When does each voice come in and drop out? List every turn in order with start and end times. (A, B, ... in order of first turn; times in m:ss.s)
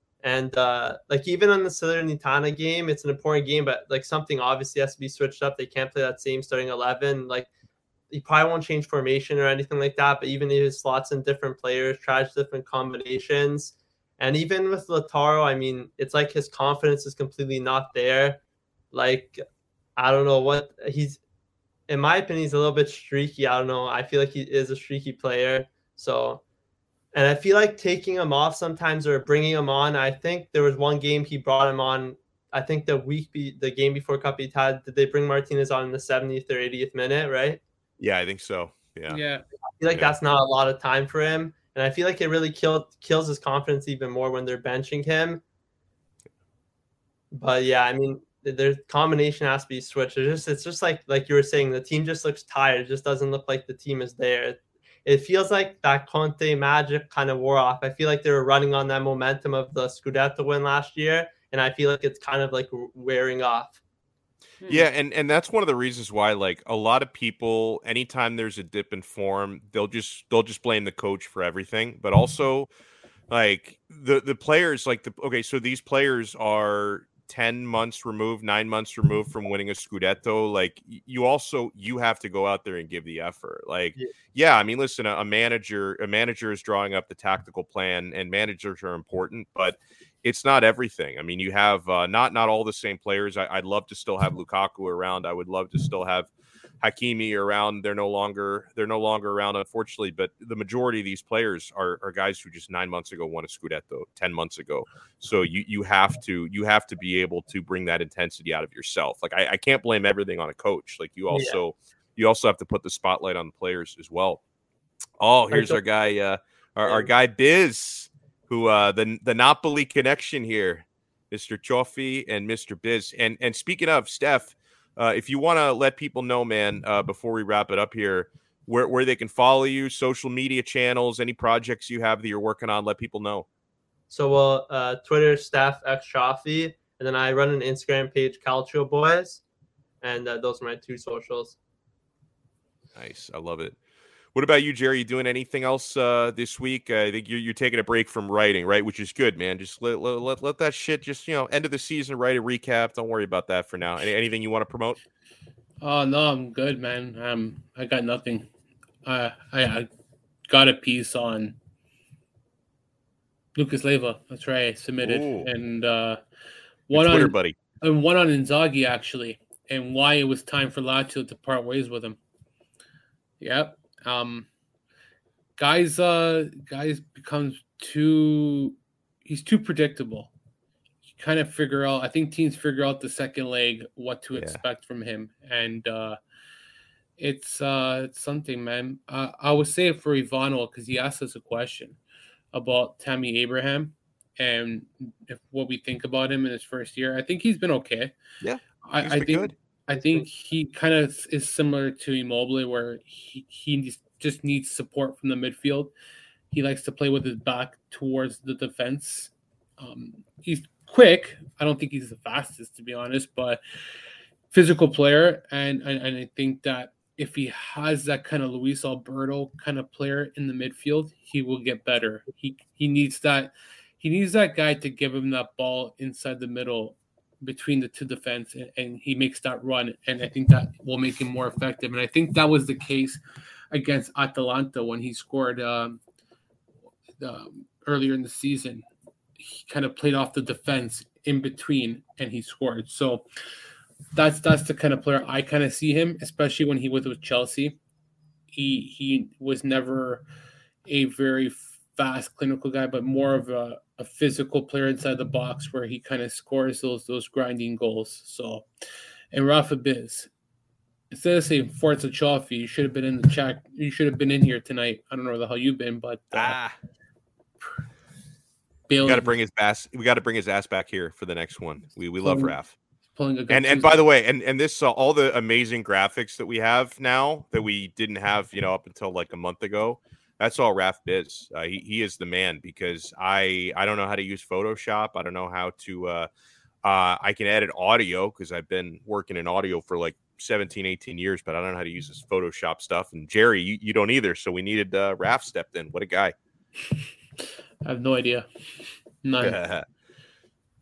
0:00.2-0:07.5 A
0:08.1-0:18.4 A
0:18.9-0:19.4 A
0:20.0-0:21.2 A
0:21.9-0:26.4 A
0:27.1-0:37.6 A
0:38.0-0:39.2 B
0:39.1-0:39.4 C
0:39.8-0:45.4 A
0:47.3-1:03.8 A
1:04.6-1:04.8 C
1:04.7-1:12.7 B
1:13.3-1:54.4 B
1:51.3-1:51.6 A
1:55.2-2:13.4 B
1:55.5-1:55.8 A
1:56.8-1:57.1 A
2:14.1-2:19.4 A
2:20.0-2:21.6 A
2:23.0-2:23.8 B
2:24.3-2:35.0 B
2:35.8-2:38.5 C
2:39.0-2:39.9 C
2:40.5-2:41.6 C
2:43.6-2:46.2 C
2:45.0-2:45.5 B
2:46.9-2:52.2 C
2:46.9-2:47.6 B
2:53.4-2:54.5 C
2:55.6-3:00.3 C
3:01.0-3:06.2 C
3:04.4-3:04.6 B
3:07.2-3:12.0 C
3:12.5-3:18.1 C
3:18.4-3:19.5 B
3:18.8-3:25.9 C
3:19.9-3:20.2 A
3:26.5-3:33.6 C
3:34.5-3:56.0 C
3:57.2-3:58.8 C
3:59.4-4:03.2 C
4:04.1-4:07.8 C
4:08.5-4:10.2 C
4:10.8-4:18.6 C
4:19.3-4:20.3 C
4:21.1-4:26.6 C
4:26.3-4:26.8 B
4:28.9-4:29.4 C
4:29.0-4:32.7 B
4:32.2-4:32.6 C
4:33.1-4:34.0 C
4:33.5-4:46.3 B
4:46.8-4:56.3 B
4:57.8-4:58.5 C
4:59.2-4:59.6 C
4:59.4-4:59.8 B